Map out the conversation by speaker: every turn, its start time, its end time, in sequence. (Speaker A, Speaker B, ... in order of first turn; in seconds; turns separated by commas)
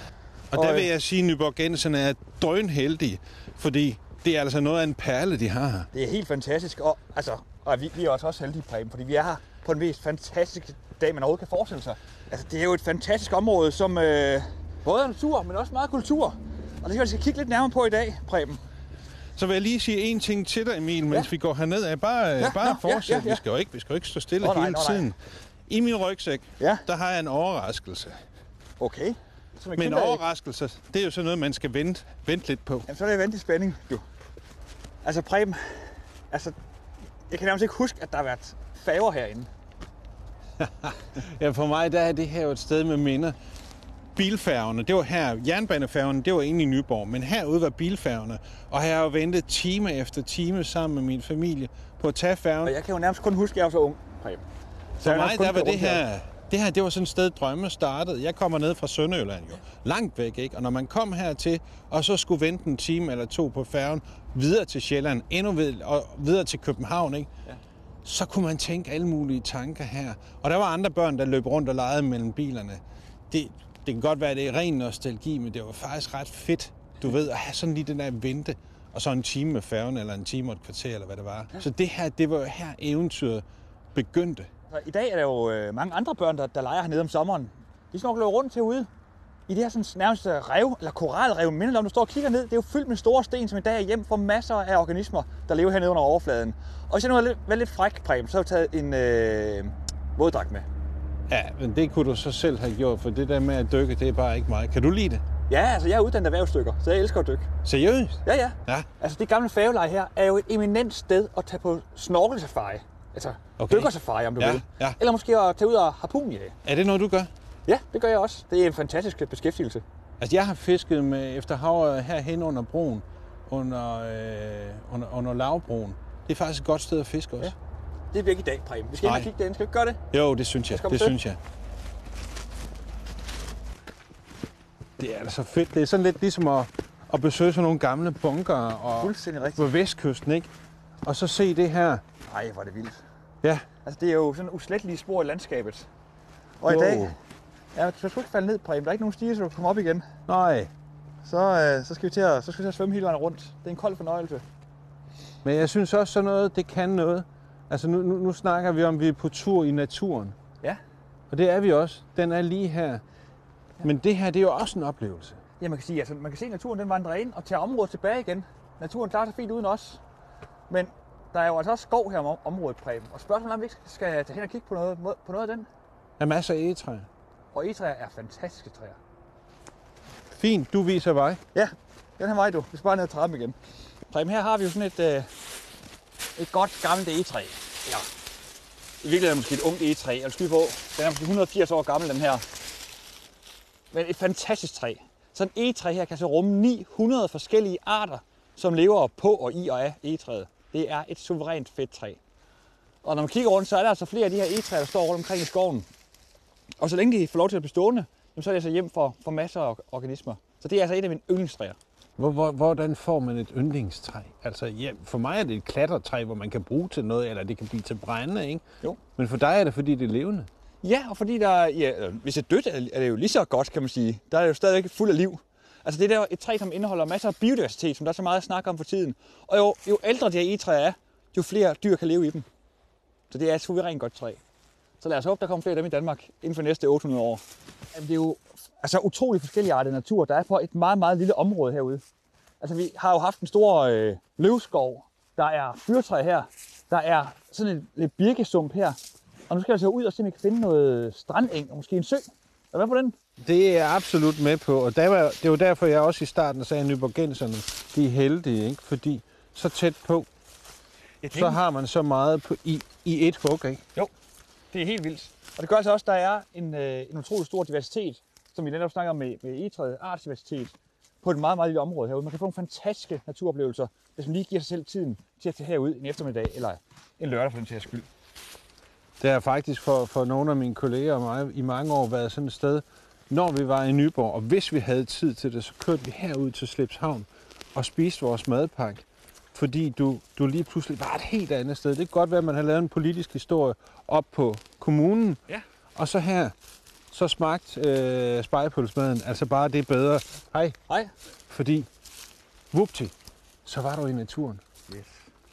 Speaker A: 0.5-5.9, Speaker B: 0.5-0.9, Speaker B: 5.9-18.6, Speaker A: 19.4-25.2, Speaker B: 22.4-23.4, Speaker B: 24.4-25.1, Speaker A: 25.7-28.2, Speaker B: 26.6-26.9, Speaker B: 28.8-30.2, Speaker A: 29.7-32.9, Speaker B: 32.9-34.0, Speaker B: 35.0-36.6, Speaker B: 37.3-39.5, Speaker A: 40.6-43.4, Speaker A: 44.2-52.8, Speaker B: 52.6-54.4, Speaker B: 55.0-56.0, Speaker A: 55.0-67.3, Speaker A: 68.0-83.4, Speaker A: 84.0-84.5, Speaker B: 84.7-88.9, Speaker B: 89.5-100.7, Speaker A: 101.3-105.2, Speaker B: 105.5-107.5, Speaker A: 107.6-108.9, Speaker B: 108.2-116.6, Speaker A: 113.6-115.0, Speaker A: 116.7-117.3, Speaker B: 117.7-119.8, Speaker A: 120.2-127.5, Speaker B: 128.1-130.0, Speaker A: 129.0-129.3, Speaker A: 130.1-131.4, Speaker B: 130.7-131.2, Speaker A: 135.0-140.5, Speaker B: 139.0-139.7, Speaker A: 141.1-142.0, Speaker B: 142.3-143.0, Speaker B: 143.8-145.9, Speaker B: 146.6-147.2, Speaker A: 146.7-147.1, Speaker B: 147.8-150.1, Speaker A: 150.3-150.7, Speaker B: 151.2-154.4, Speaker A: 155.4-160.3, Speaker A: 161.3-163.0, Speaker A: 163.8-165.4, Speaker B: 165.6-170.0, Speaker B: 170.7-175.7, Speaker A: 176.2-177.1, Speaker B: 177.5-179.0, Speaker A: 180.3-181.4, Speaker B: 181.5-183.6, Speaker B: 184.1-185.3, Speaker B: 186.4-188.1, Speaker B: 189.0-192.4, Speaker B: 193.9-202.2, Speaker B: 203.0-205.9, Speaker B: 206.8-211.8, Speaker A: 212.2-218.6, Speaker A: 219.2-220.5, Speaker B: 220.8-232.5, Speaker B: 233.3-234.4, Speaker B: 235.0-242.0, Speaker B: 242.6-249.0, Speaker B: 249.5-253.2, Speaker A: 253.4-260.3, Speaker B: 261.2-261.6, Speaker A: 261.3-263.8, Speaker B: 264.7-278.1, Speaker A: 279.2-295.4, Speaker A: 295.9-296.5, Speaker A: 297.1-300.8, Speaker B: 300.9-301.1, Speaker A: 301.5-301.9, Speaker A: 302.7-303.1, Speaker A: 303.6-304.6, Speaker B: 304.9-305.3